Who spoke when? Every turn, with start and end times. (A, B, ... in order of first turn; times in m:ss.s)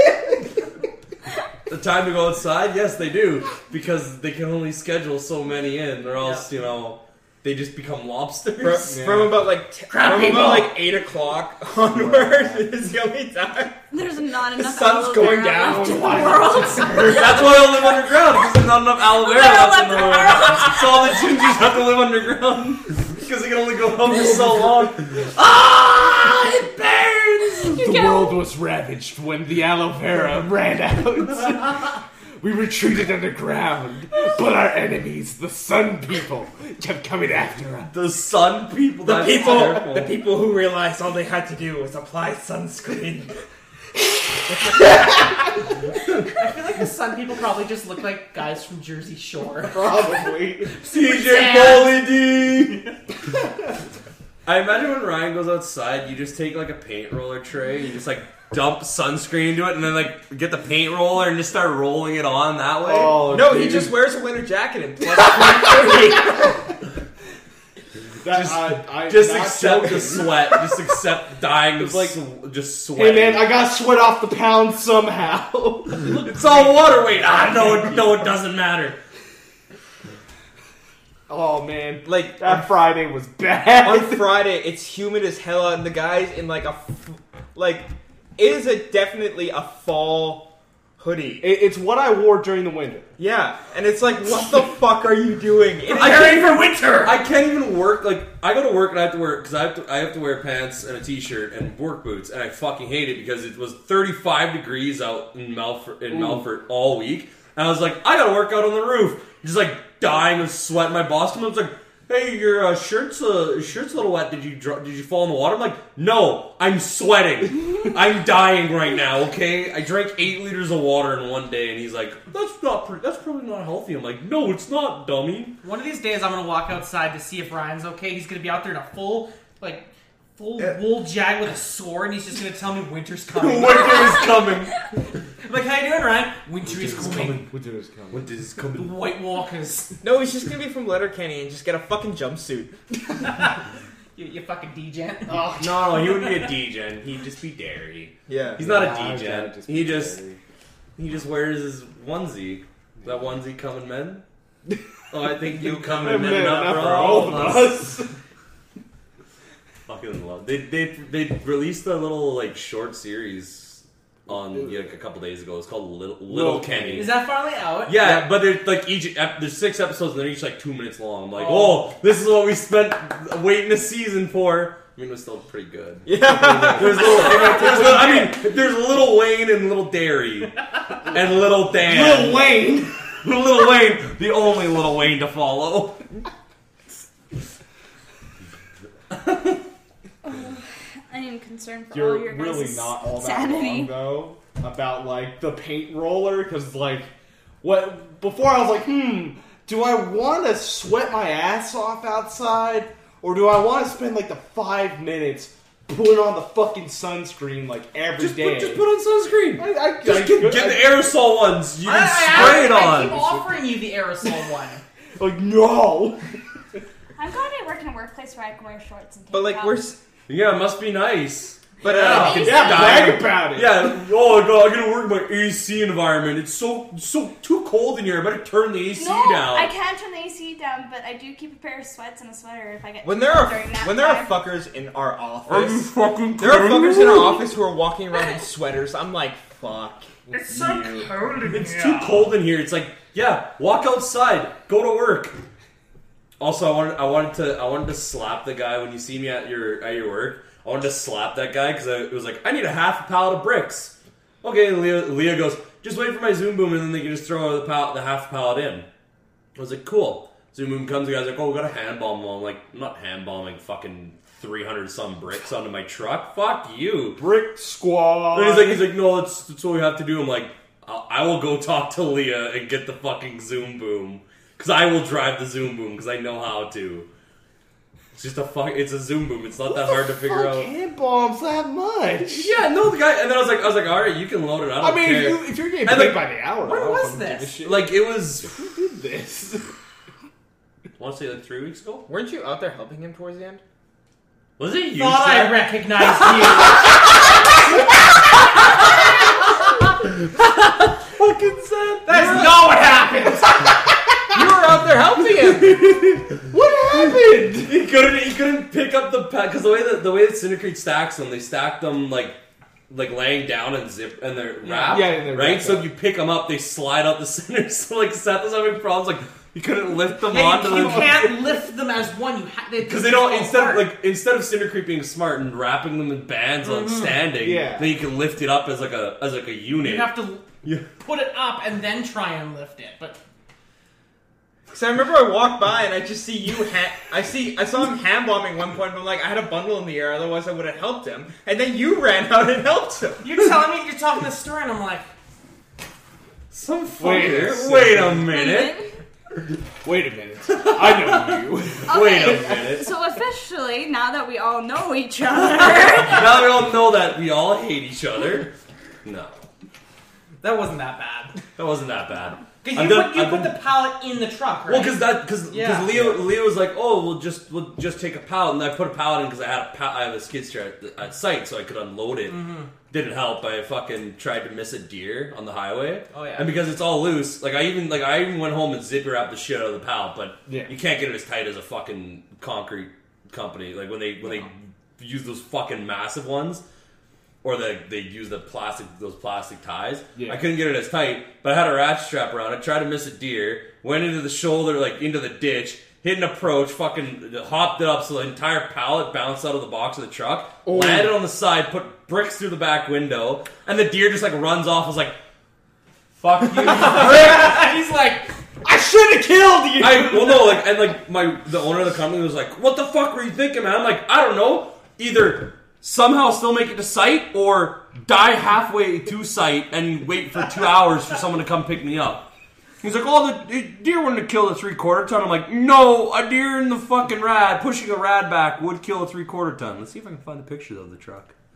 0:01.7-0:08.9 A
0:06.2-0:06.4 B
0:08.6-0:13.8 C
0:08.8-0:09.5 D
0:09.9-0:10.7 B
0:11.8-0:12.7 D
0:13.9-0:17.6 E
0:14.6-0:16.2 C
0:14.9-0:17.6 D
0:17.0-0:27.6 A
0:19.0-0:21.3 E
0:24.3-0:24.6 D
0:25.4-0:26.8 D
0:27.6-0:37.9 D
0:27.7-0:28.4 E
0:37.9-0:40.2 A
0:39.0-0:43.4 C
0:46.3-0:52.1 B
0:49.6-0:50.8 D
0:50.8-0:52.9 A
0:54.4-1:03.3 A
1:02.8-1:04.0 D
1:03.2-1:06.6 C
1:08.2-1:11.0 D
1:08.3-1:13.5 A
1:11.7-1:12.2 D
1:12.9-1:16.2 D
1:16.0-1:19.0 A
1:16.2-1:17.8 B
1:21.3-1:24.4 D
1:22.0-1:22.7 C
1:23.7-1:31.5 C
1:31.4-1:33.1 D
1:33.2-1:36.4 C
1:35.9-1:37.1 B
1:36.0-2:05.6 A
1:46.1-1:46.4 D
2:05.6-2:14.4 B
2:13.3-2:14.9 A
2:15.4-2:17.4 B
2:16.6-2:17.5 A
2:17.0-2:18.3 D
2:18.1-2:19.0 A
2:18.8-2:20.0 B
2:20.0-2:22.8 C
2:24.1-2:25.5 B
2:25.3-2:26.2 D
2:25.6-2:30.2 A
2:28.3-2:28.7 C
2:28.6-2:30.4 D
2:31.0-2:34.2 A
2:35.1-2:37.9 A
2:35.5-2:38.1 D
2:39.9-2:47.2 A
2:44.3-2:44.8 D
2:46.3-2:47.2 D
2:46.9-2:48.0 B
2:47.8-2:56.1 A
2:51.4-2:51.8 D
2:56.0-2:58.0 C
2:56.1-2:58.4 D
2:56.7-3:06.0 A
3:01.7-3:03.0 D
3:09.1-3:09.6 A
3:10.2-3:13.9 E
3:11.9-3:17.1 D
3:17.6-3:28.9 D
3:28.2-3:33.3 A
3:29.6-3:31.1 D
3:31.8-3:34.8 B
3:35.2-3:36.2 D
3:37.2-3:39.8 E
3:39.3-3:40.0 C
3:40.3-3:49.7 A
3:41.8-3:43.0 C
3:42.0-3:42.4 B
3:42.1-3:43.9 D
3:42.2-3:43.1 E
3:48.9-3:54.4 E
3:53.0-4:01.1 C
3:55.5-3:57.5 A
4:00.3-4:02.3 B
4:01.4-4:05.4 A
4:06.4-4:18.8 A
4:19.6-4:27.2 A
4:27.2-4:28.9 D
4:28.3-4:37.1 A
4:38.1-4:40.7 A
4:39.7-4:42.5 D
4:42.2-4:46.3 A
4:44.8-4:49.7 D
4:46.6-4:47.6 B
4:47.6-4:48.5 A
4:51.0-4:52.1 A
4:52.1-4:53.6 C
4:54.6-4:56.9 A
4:54.9-4:56.9 B
5:01.2-5:02.6 A
5:02.0-5:03.9 B
5:03.0-5:03.7 D
5:04.3-5:05.9 C
5:05.7-5:07.8 D
5:07.6-5:21.3 A
5:14.6-5:15.2 B
5:14.9-5:15.9 D
5:20.3-5:23.9 B
5:20.7-5:21.3 D
5:22.8-5:30.9 A
5:26.6-5:27.2 B
5:27.4-5:27.9 D
5:29.8-5:33.2 B
5:34.7-5:43.2 C
5:43.2-5:45.1 B
5:46.5-5:48.8 A
5:47.0-5:48.4 D
5:48.3-5:49.0 E
5:49.8-5:52.7 D
5:50.5-5:52.9 A
5:51.9-5:56.5 E
5:55.4-5:59.4 A
6:00.4-6:01.4 B
6:01.6-6:03.6 A
6:02.6-6:06.1 B
6:04.7-6:12.4 A
6:12.2-6:12.7 B
6:12.9-6:26.6 A
6:16.1-6:16.6 B
6:20.4-6:20.7 D
6:27.4-6:45.2 A
6:30.1-6:30.5 D
6:40.6-6:41.2 D
6:46.2-6:47.5 A
6:46.6-6:48.3 B
6:46.9-6:47.6 D
6:48.6-6:50.7 D
6:49.8-7:02.2 A
7:02.8-7:11.3 A